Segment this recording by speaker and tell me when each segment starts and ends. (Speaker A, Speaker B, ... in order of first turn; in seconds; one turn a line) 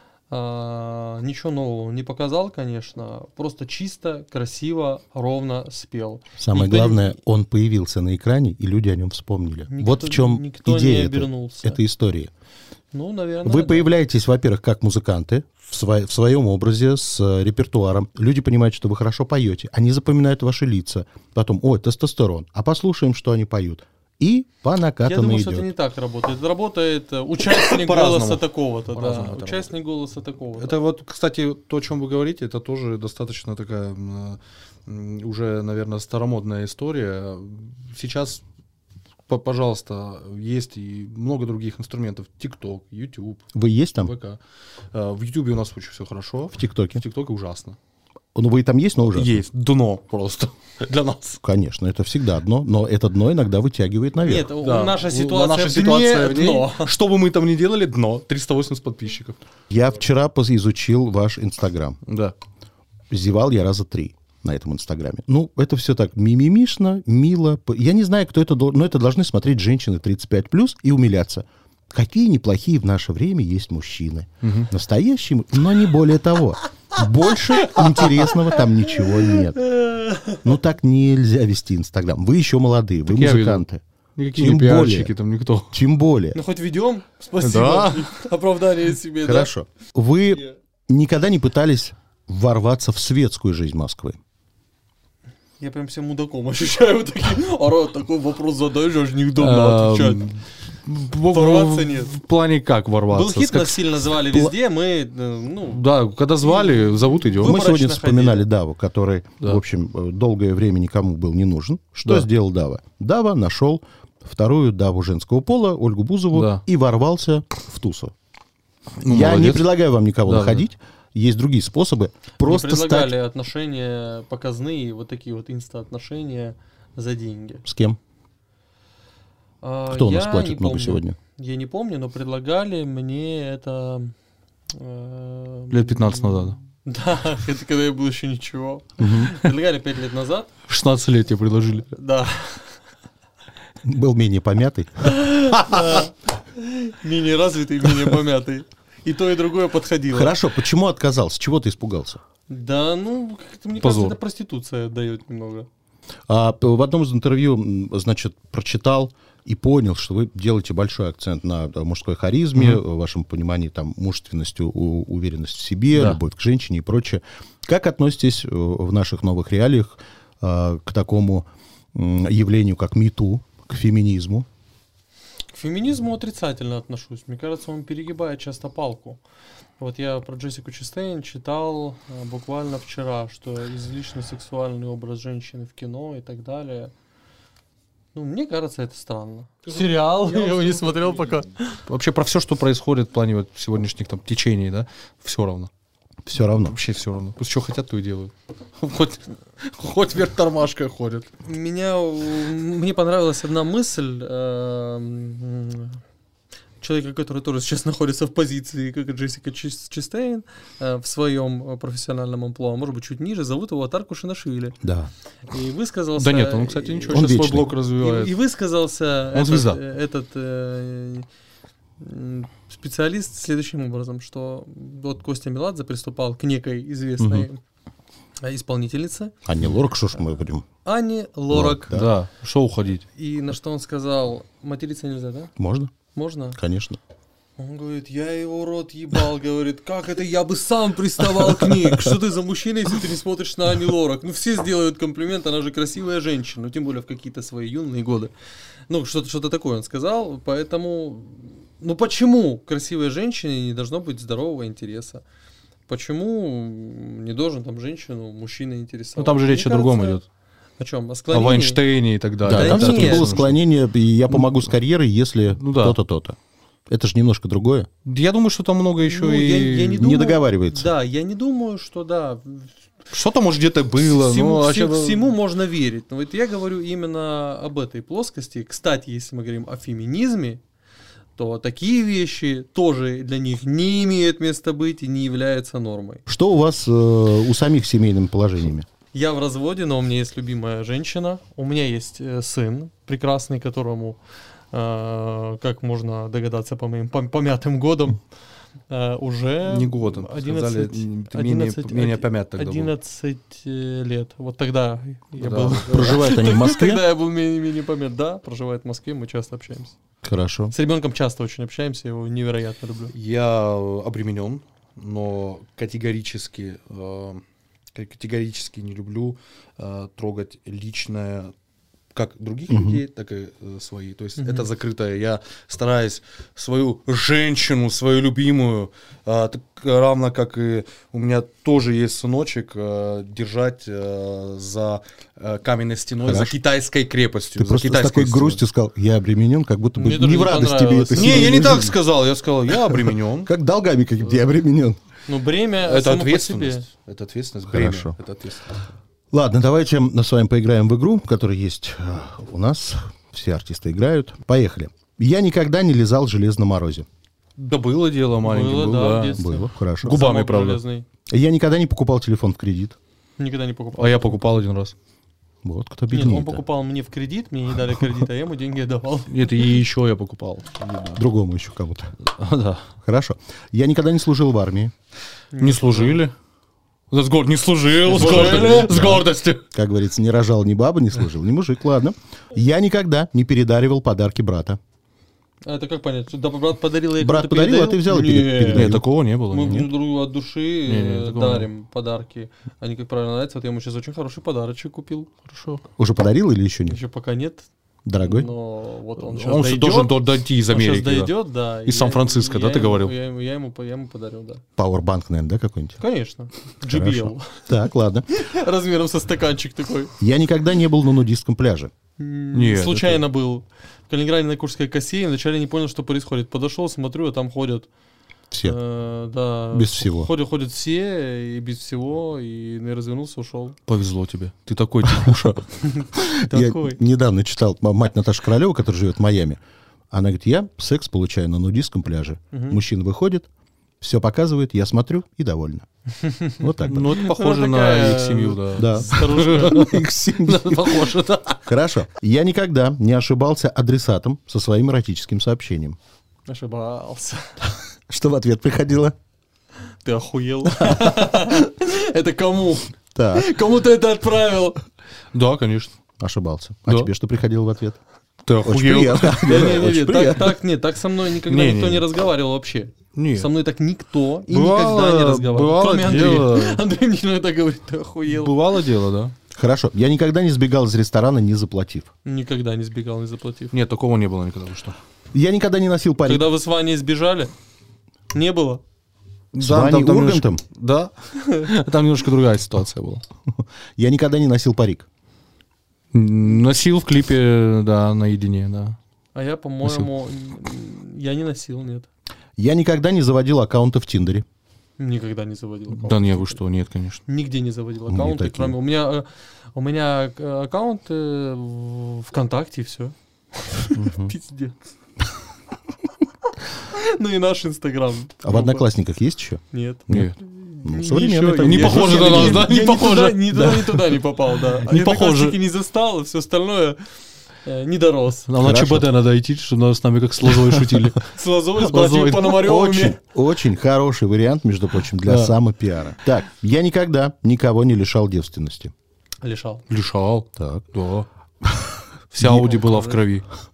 Speaker A: 0.3-7.2
Speaker B: 6.4-12.3
Speaker A: 9.7-11.8
Speaker A: 12.9-13.9
Speaker B: 13.4-25.7
Speaker A: 25.0-30.8
Speaker C: 27.4-29.7
Speaker C: 30.6-38.4
Speaker C: 39.3-43.5
Speaker B: 43.5-44.1
Speaker C: 44.0-44.4
Speaker C: 44.9-47.8
Speaker B: 46.5-47.0
Speaker B: 48.3-49.4
Speaker C: 49.1-51.4
Speaker B: 51.4-54.5
Speaker A: 54.2-56.9
Speaker C: 54.6-59.4
Speaker B: 59.7-62.0
Speaker C: 62.0-62.3
Speaker B: 63.1-79.6
Speaker C: 74.4-74.7
Speaker A: 79.3-80.4
Speaker B: 80.4-83.8
Speaker C: 83.1-83.6
Speaker C: 84.2-85.8
Speaker B: 84.3-85.1
Speaker B: 85.7-86.4
Speaker A: 86.3-89.5
Speaker C: 87.4-88.2
Speaker B: 89.2-94.2
Speaker A: 95.6-100.2
Speaker C: 99.4-104.5
Speaker A: 101.3-102.2
Speaker A: 103.1-105.8
Speaker C: 105.7-107.6
Speaker A: 106.4-108.4
Speaker B: 107.4-118.1
Speaker C: 116.3-116.6
Speaker C: 119.0-119.7
Speaker B: 119.0-123.1
Speaker C: 120.2-120.7
Speaker A: 122.4-127.6
Speaker B: 127.6-128.0
Speaker A: 129.6-134.1
Speaker B: 129.9-131.2
Speaker A: 134.7-140.5
Speaker C: 135.7-136.6
Speaker B: 139.0-139.4
Speaker C: 140.7-141.9
Speaker A: 141.9-142.7
Speaker B: 143.8-145.2
Speaker A: 145.0-150.4
Speaker B: 150.1-152.2
Speaker A: 152.5-155.7
Speaker C: 153.8-154.2
Speaker B: 156.3-174.5
Speaker C: 162.5-162.8
Speaker C: 165.9-166.2
Speaker A: 175.5-179.2
Speaker A: 179.8-186.9
Speaker A: 188.1-191.8
Speaker C: 189.7-191.3
Speaker C: 191.9-195.7
Speaker B: 196.2-196.8
Speaker C: 196.6-201.3
Speaker A: 201.4-206.0
Speaker A: 206.8-214.8
Speaker B: 214.8-215.1
Speaker A: 215.5-221.3
Speaker C: 216.2-218.3
Speaker B: 217.1-217.7
Speaker C: 219.3-219.8
Speaker A: 222.0-227.6
Speaker B: 227.2-227.5
Speaker A: 228.4-229.3
Speaker B: 229.4-230.7
Speaker A: 230.8-231.9
Speaker B: 231.5-232.1
Speaker C: 231.9-233.0
Speaker A: 233.2-235.5
Speaker B: 235.6-235.9
Speaker A: 236.1-236.6
Speaker B: 236.6-237.0
Speaker A: 237.6-248.3
Speaker A: 248.9-255.2
Speaker A: 255.9-260.2
Speaker C: 259.2-260.2
Speaker A: 260.8-261.8
Speaker C: 261.3-263.6
Speaker B: 262.4-266.4
Speaker A: 262.5-263.4
Speaker C: 264.3-264.6
Speaker C: 265.5-266.0
Speaker B: 266.9-267.9
Speaker C: 268.0-270.1
Speaker A: 269.0-272.7
Speaker B: 270.0-270.9
Speaker C: 273.1-275.3
Speaker A: 274.0-280.6
Speaker A: 281.4-286.2
Speaker B: 286.3-288.9
Speaker A: 289.1-294.2
Speaker A: 294.7-298.2
Speaker A: 298.9-309.9
Speaker C: 299.6-302.9
Speaker C: 305.4-306.3
Speaker B: 305.9-307.0
Speaker B: 310.2-310.7
Speaker A: 310.7-313.1
Speaker C: 313.1-317.4
Speaker C: 317.9-321.5
Speaker C: 322.1-338.6
Speaker B: 322.7-323.0
Speaker A: 324.4-324.7
Speaker B: 336.2-336.5
Speaker B: 337.6-342.0
Speaker A: 339.9-341.7
Speaker C: 341.1-343.5
Speaker B: 342.9-345.0
Speaker A: 345.3-346.9
Speaker C: 345.8-348.8
Speaker B: 347.7-348.1
Speaker B: 349.3-357.1
Speaker C: 357.6-360.8
Speaker A: 358.4-361.1
Speaker B: 359.4-360.2
Speaker B: 361.3-363.0
Speaker A: 363.4-364.4
Speaker C: 364.0-364.9
Speaker B: 365.6-366.6
Speaker A: 366.1-369.5
Speaker C: 369.3-371.2
Speaker B: 371.1-372.1
Speaker C: 372.2-372.9
Speaker B: 373.0-374.9
Speaker A: 375.5-376.2
Speaker C: 375.6-376.3
Speaker C: 377.1-379.6
Speaker A: 378.1-378.9
Speaker B: 378.1-384.8
Speaker A: 385.6-389.0
Speaker B: 387.2-389.9
Speaker C: 388.7-389.9
Speaker A: 389.5-395.3
Speaker C: 390.9-391.7
Speaker C: 395.4-395.8
Speaker B: 396.0-397.0
Speaker A: 396.9-397.7
Speaker B: 398.0-398.5
Speaker A: 398.2-404.6
Speaker C: 399.2-401.3
Speaker C: 401.8-403.1
Speaker B: 404.8-406.0
Speaker A: 406.0-407.8
Speaker B: 406.9-408.3
Speaker A: 408.3-410.1
Speaker B: 410.2-411.9
Speaker A: 412.2-417.9
Speaker C: 412.5-413.2
Speaker B: 418.5-418.8
Speaker A: 418.6-423.8
Speaker B: 419.7-420.3
Speaker C: 423.9-425.6
Speaker A: 425.8-427.0
Speaker B: 426.2-429.6
Speaker B: 430.1-433.5
Speaker A: 432.5-432.8
Speaker B: 434.0-435.9
Speaker A: 436.2-439.8
Speaker B: 436.6-437.1
Speaker C: 436.9-441.6
Speaker B: 438.7-446.0
Speaker A: 446.5-447.6
Speaker B: 448.1-449.1
Speaker A: 450.0-454.8
Speaker B: 453.1-453.4
Speaker C: 455.3-455.9
Speaker B: 456.2-458.0
Speaker C: 458.4-459.9
Speaker B: 458.6-460.5
Speaker A: 459.4-468.7
Speaker C: 461.5-462.0
Speaker C: 463.1-463.5
Speaker C: 464.5-466.8
Speaker C: 468.3-469.3
Speaker B: 469.5-472.1
Speaker A: 472.2-473.7
Speaker C: 473.7-474.9
Speaker B: 475.3-476.5
Speaker A: 476.2-477.5
Speaker A: 478.3-478.8
Speaker C: 479.5-483.2
Speaker B: 479.6-480.6
Speaker A: 481.4-481.7
Speaker B: 483.5-485.1
Speaker C: 486.1-489.0
Speaker A: 489.3-492.1
Speaker C: 489.8-490.1
Speaker B: 492.6-494.4
Speaker A: 495.0-496.6
Speaker C: 495.9-497.2
Speaker A: 497.3-504.8
Speaker B: 498.1-498.8
Speaker B: 503.9-504.3
Speaker A: 506.7-508.9
Speaker B: 508.4-510.3
Speaker A: 509.7-517.1
Speaker C: 510.1-510.3
Speaker B: 510.8-512.8
Speaker C: 511.6-515.6
Speaker A: 517.6-518.5
Speaker C: 518.5-522.8
Speaker B: 518.6-519.1
Speaker A: 521.2-523.2
Speaker B: 522.4-528.9
Speaker C: 525.2-525.5
Speaker A: 529.4-529.8
Speaker C: 529.9-531.2
Speaker B: 530.5-530.8
Speaker C: 532.3-533.4
Speaker A: 532.4-533.2